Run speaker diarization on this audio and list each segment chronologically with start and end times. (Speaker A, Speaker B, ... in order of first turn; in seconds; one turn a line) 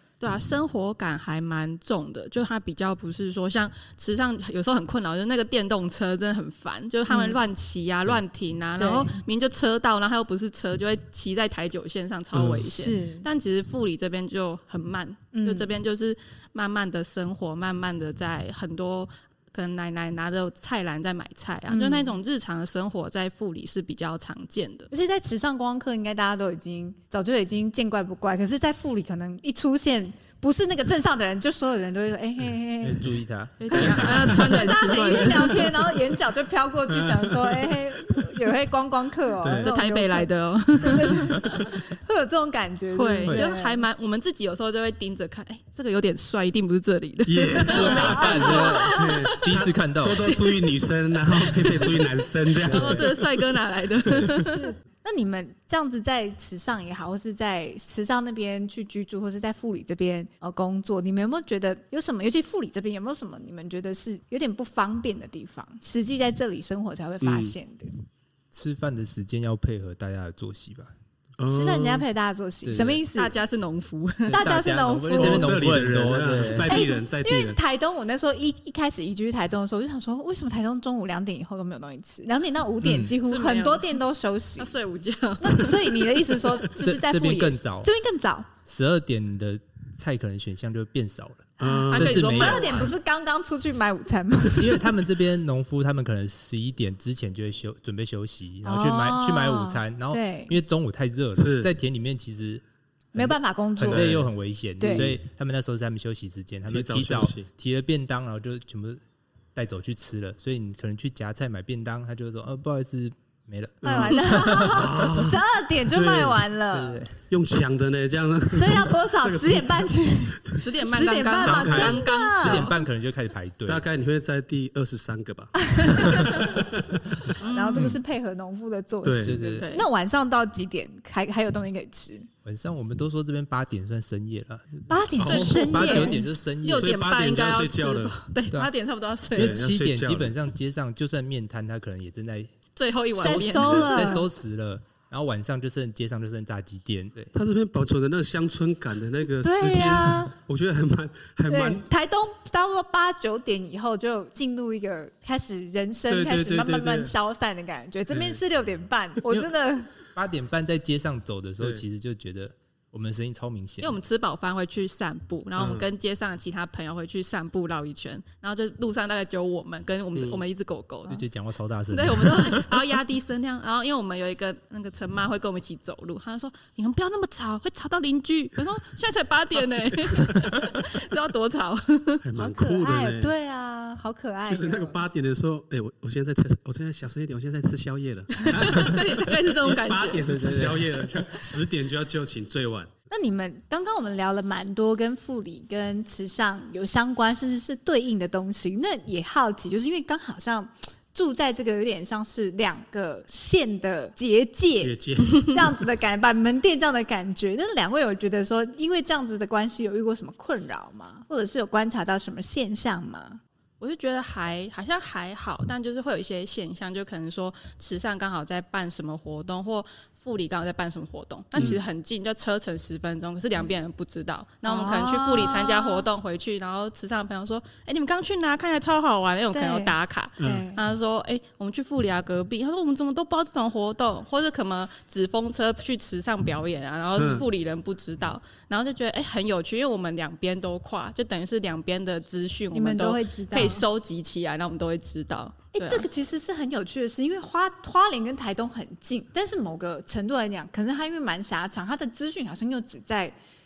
Speaker A: 0.2-24.9
Speaker B: 7.1-7.4
Speaker B: 8.8-9.2
Speaker C: 12.3-12.7
Speaker B: 12.4-13.3
Speaker B: 15.3-15.7
Speaker B: 21.7-22.2
Speaker B: 24.9-33.1
Speaker D: 32.8-34.6
Speaker A: 33.6-35.7
Speaker B: 33.7-40.3
Speaker C: 34.0-34.6
Speaker C: 36.9-37.8
Speaker C: 39.4-39.7
Speaker A: 39.6-41.7
Speaker B: 40.8-43.8
Speaker A: 42.9-49.5
Speaker C: 47.3-53.5
Speaker D: 47.6-50.3
Speaker B: 47.8-48.8
Speaker A: 50.3-50.5
Speaker A: 51.8-52.0
Speaker A: 52.6-54.7
Speaker C: 54.0-54.3
Speaker B: 54.3-67.9
Speaker C: 67.2-67.5
Speaker D: 68.5-70.9
Speaker C: 71.4-72.0
Speaker B: 71.5-73.4
Speaker D: 72.7-73.0
Speaker A: 73.1-74.5
Speaker D: 74.3-76.8
Speaker B: 74.3-75.6
Speaker C: 75.2-77.6
Speaker B: 76.6-84.8
Speaker D: 82.8-83.1
Speaker A: 83.2-84.0
Speaker A: 84.6-86.2
Speaker B: 85.4-88.5
Speaker D: 86.7-87.9
Speaker D: 88.7-92.9
Speaker C: 91.6-92.2
Speaker B: 91.6-94.8
Speaker A: 91.9-92.9
Speaker D: 94.5-102.6
Speaker B: 98.6-100.6
Speaker C: 101.4-101.7
Speaker D: 103.1-109.0
Speaker B: 103.2-104.1
Speaker C: 103.8-104.3
Speaker B: 104.8-105.1
Speaker C: 104.8-105.2
Speaker C: 106.7-107.5
Speaker D: 109.5-115.0
Speaker C: 113.8-120.7
Speaker B: 113.8-117.0
Speaker D: 116.8-117.1
Speaker B: 118.5-122.7
Speaker A: 120.6-122.8
Speaker D: 121.4-123.8
Speaker C: 121.6-122.0
Speaker C: 123.7-128.0
Speaker B: 125.8-126.3
Speaker A: 127.4-128.0
Speaker B: 127.4-132.3
Speaker C: 129.0-129.4
Speaker D: 129.2-129.7
Speaker A: 129.5-129.9
Speaker D: 132.4-136.9
Speaker B: 134.9-136.3
Speaker C: 135.2-135.7
Speaker A: 135.3-139.6
Speaker C: 136.7-138.2
Speaker D: 139.3-142.5
Speaker C: 139.3-140.3
Speaker A: 142.8-144.1
Speaker B: 143.2-144.3
Speaker D: 143.2-147.3
Speaker C: 147.3-151.8
Speaker B: 149.4-150.3
Speaker B: 151.5-159.9
Speaker C: 156.1-157.1
Speaker C: 158.1-158.4
Speaker D: 160.2-164.0
Speaker A: 163.8-171.2
Speaker C: 165.6-165.9
Speaker C: 170.2-170.4
Speaker D: 171.1-172.8
Speaker A: 171.9-182.2
Speaker C: 182.2-183.3
Speaker B: 182.4-185.0
Speaker C: 184.5-192.9
Speaker A: 188.5-190.8
Speaker B: 193.1-213.4
Speaker C: 204.8-205.7
Speaker A: 213.8-246.1
Speaker B: 224.6-226.1
Speaker B: 229.5-230.8
Speaker C: 230.4-230.7
Speaker C: 237.1-237.5
Speaker B: 242.7-243.8
Speaker B: 245.7-253.4